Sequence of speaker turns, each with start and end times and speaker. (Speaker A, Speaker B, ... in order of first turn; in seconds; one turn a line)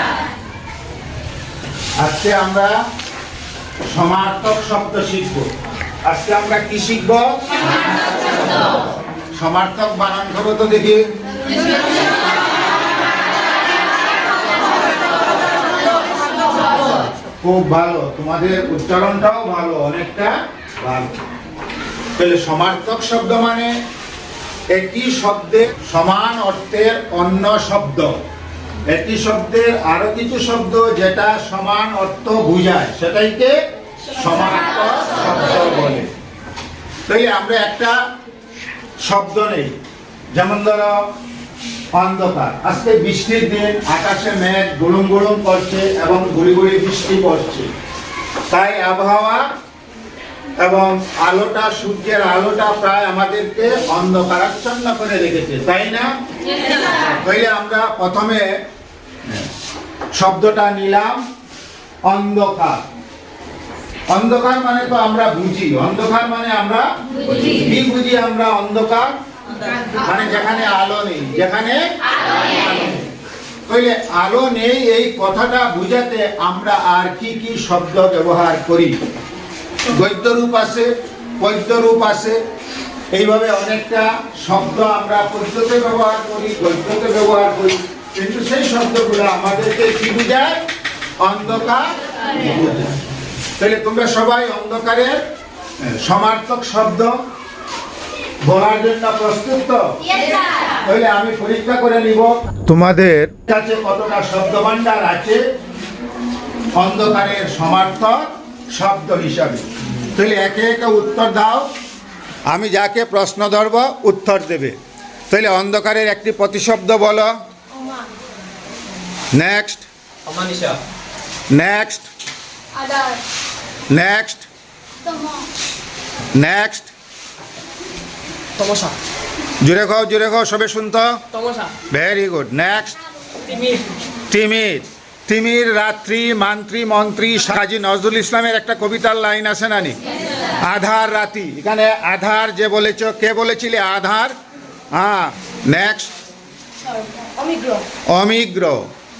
Speaker A: 2.0-2.8
Speaker A: 3.9-5.5
Speaker A: 6.0-7.4
Speaker A: 9.3-11.0
Speaker A: 16.8-21.2
Speaker A: 22.2-23.7
Speaker A: 24.7-28.2
Speaker A: 28.9-33.5
Speaker A: 34.1-36.1
Speaker A: 37.1-38.0
Speaker A: 39.0-39.7
Speaker A: 40.3-41.0
Speaker A: 41.9-47.7
Speaker A: 48.5-49.4
Speaker A: 50.6-56.1
Speaker A: 57.0-58.6
Speaker A: 60.1-61.2
Speaker A: 62.0-62.8
Speaker A: 64.1-69.1
Speaker A: 70.0-71.8
Speaker A: 72.4-73.0
Speaker A: 73.7-79.0
Speaker A: 79.9-82.4
Speaker A: 83.1-90.6
Speaker A: 91.2-92.9
Speaker A: 93.6-95.2
Speaker A: 95.8-97.2
Speaker A: 98.4-99.9
Speaker A: 100.8-105.4
Speaker A: 106.8-111.7
Speaker A: 112.5-114.8
Speaker A: 115.3-117.3
Speaker A: 119.3-119.9
Speaker B: 120.3-120.8
Speaker A: 121.5-122.1
Speaker B: 122.9-123.2
Speaker A: 123.9-124.5
Speaker A: 126.3-126.9
Speaker B: 128.6-128.9
Speaker A: 129.6-131.2
Speaker B: 131.3-131.7
Speaker A: 131.9-133.0
Speaker B: 133.4-133.8
Speaker A: 134.3-140.0
Speaker A: 140.5-144.3
Speaker A: 144.9-146.1
Speaker B: 147.1-147.8
Speaker A: 148.1-148.8